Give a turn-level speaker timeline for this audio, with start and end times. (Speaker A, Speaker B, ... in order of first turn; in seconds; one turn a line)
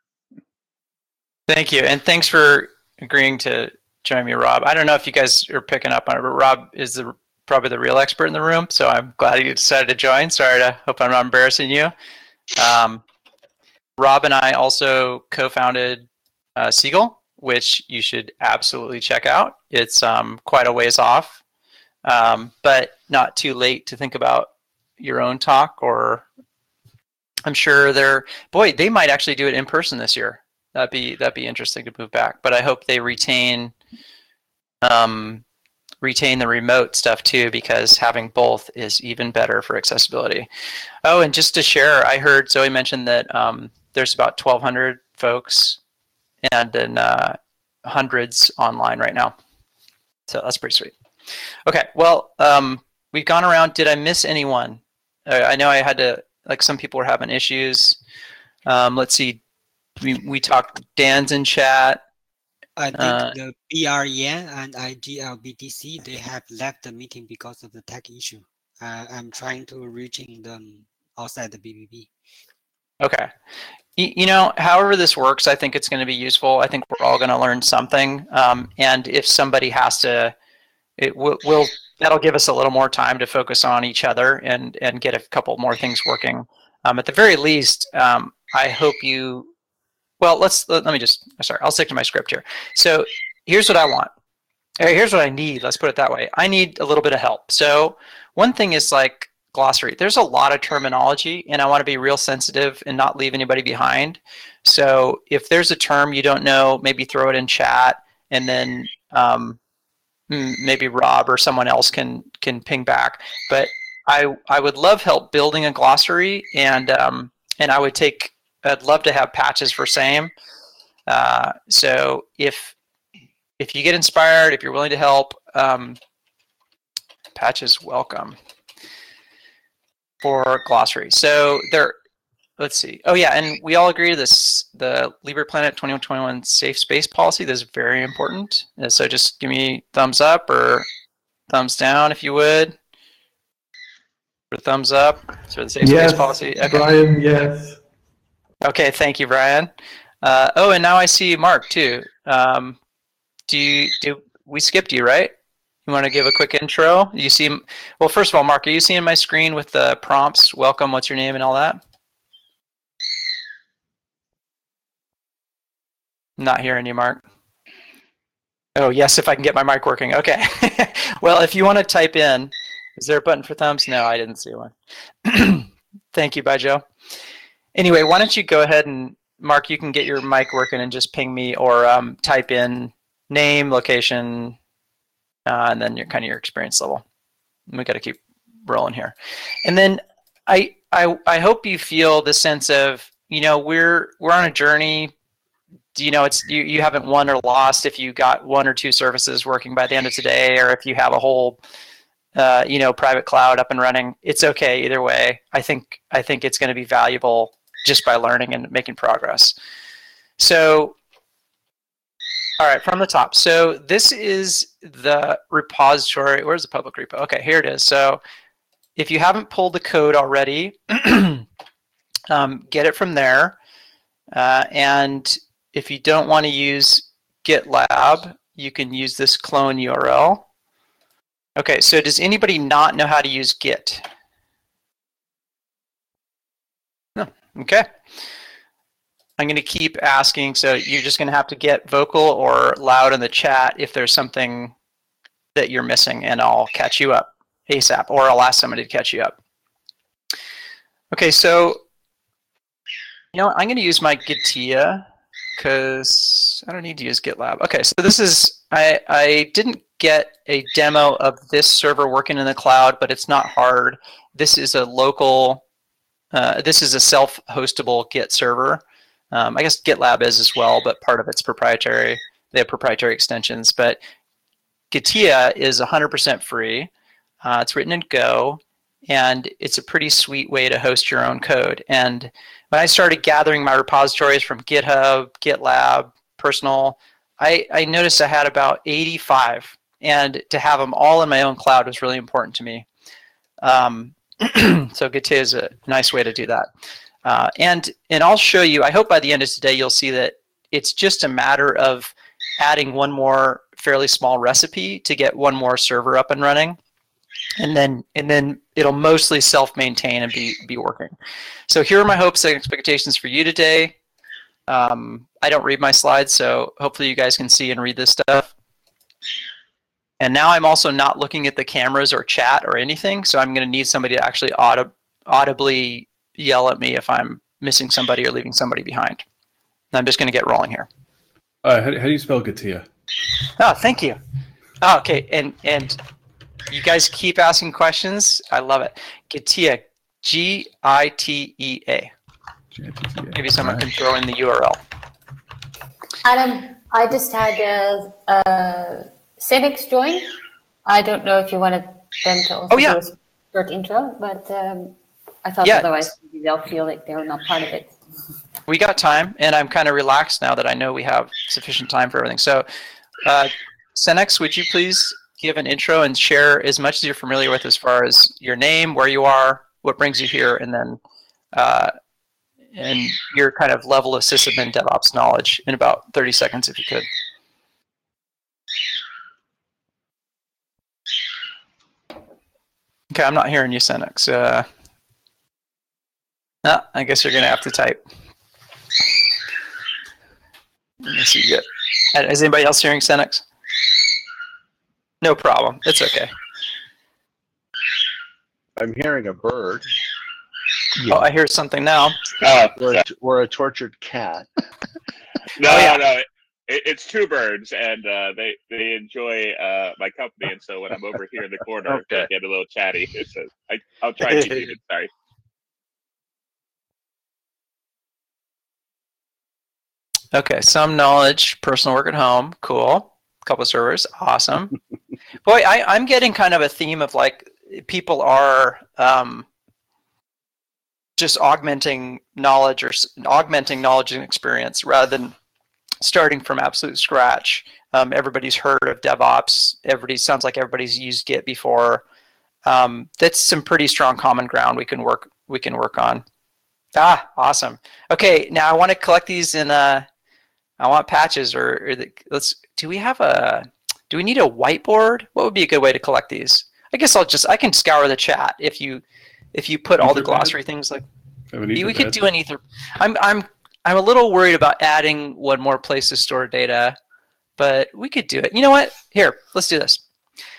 Speaker A: 1.5-11.9
Speaker A: 12.6-13.0
Speaker A: 14.0-21.4
Speaker A: 22.1-26.3
Speaker A: 27.4-33.7
Speaker A: 34.8-35.4
Speaker A: 36.0-40.5
Speaker A: 41.0-45.8
Speaker A: 46.4-49.4
Speaker A: 50.3-50.9
Speaker A: 51.7-58.0
Speaker A: 58.7-59.4
Speaker A: 60.0-62.0
Speaker B: 62.8-72.1
Speaker A: 63.0-63.3
Speaker A: 73.0-73.3
Speaker A: 74.0-80.3
Speaker A: 81.0-89.5
Speaker A: 90.2-94.1
Speaker A: 94.8-109.6
Speaker A: 110.3-120.3
Speaker A: 121.1-122.8
Speaker A: 123.6-126.0
Speaker A: 127.3-128.4
Speaker A: 130.2-132.0
Speaker A: 132.6-140.9
Speaker A: 141.5-142.8
Speaker A: 144.5-146.9
Speaker C: 145.8-147.8
Speaker A: 148.6-149.7
Speaker A: 150.2-152.8
Speaker A: 153.5-155.3
Speaker A: 155.9-161.8
Speaker A: 166.4-167.2
Speaker A: 168.8-174.7
Speaker A: 175.2-176.8
Speaker A: 177.8-184.6
Speaker A: 185.5-187.0
Speaker A: 187.7-195.1
Speaker A: 195.9-201.6
Speaker A: 202.3-209.6
Speaker A: 210.4-211.0
Speaker A: 212.6-218.2
Speaker A: 219.0-221.4
Speaker A: 222.3-223.6
Speaker A: 224.3-230.5
Speaker A: 231.6-234.1
Speaker A: 237.2-237.9
Speaker A: 239.4-244.7
Speaker A: 245.6-249.4
Speaker A: 251.1-251.8
Speaker A: 253.3-255.1
Speaker A: 255.6-265.6
Speaker A: 266.3-274.0
Speaker A: 274.9-276.9
Speaker A: 277.4-292.9
Speaker A: 293.6-296.7
Speaker A: 297.2-306.8
Speaker A: 307.6-311.1
Speaker A: 311.7-314.0
Speaker A: 314.7-318.5
Speaker A: 320.2-329.2
Speaker A: 329.9-330.9
Speaker D: 331.6-332.9
Speaker A: 333.6-334.2
Speaker A: 334.8-336.0
Speaker A: 336.7-342.1
Speaker D: 342.7-343.9
Speaker A: 343.3-344.8
Speaker E: 346.2-350.3
Speaker E: 350.9-357.9
Speaker A: 352.7-353.0
Speaker A: 355.6-356.0
Speaker A: 358.7-362.7
Speaker A: 363.2-371.0
Speaker A: 371.5-371.9
Speaker A: 372.8-377.1
Speaker A: 383.1-384.7
Speaker A: 386.6-388.0
Speaker A: 391.0-393.4
Speaker A: 395.2-396.3
Speaker F: 398.8-399.9
Speaker A: 401.1-402.3
Speaker G: 402.4-403.0
Speaker F: 402.8-404.5
Speaker G: 405.6-415.1
Speaker A: 405.6-406.0
Speaker A: 414.3-414.6
Speaker A: 420.3-424.8
Speaker A: 425.4-429.5
Speaker A: 431.2-435.3
Speaker A: 436.0-442.0
Speaker A: 442.6-446.2
Speaker A: 446.9-450.1
Speaker A: 450.8-459.0
Speaker A: 459.5-461.0
Speaker D: 460.0-460.6
Speaker D: 461.5-462.2
Speaker A: 461.8-467.0
Speaker A: 467.6-470.0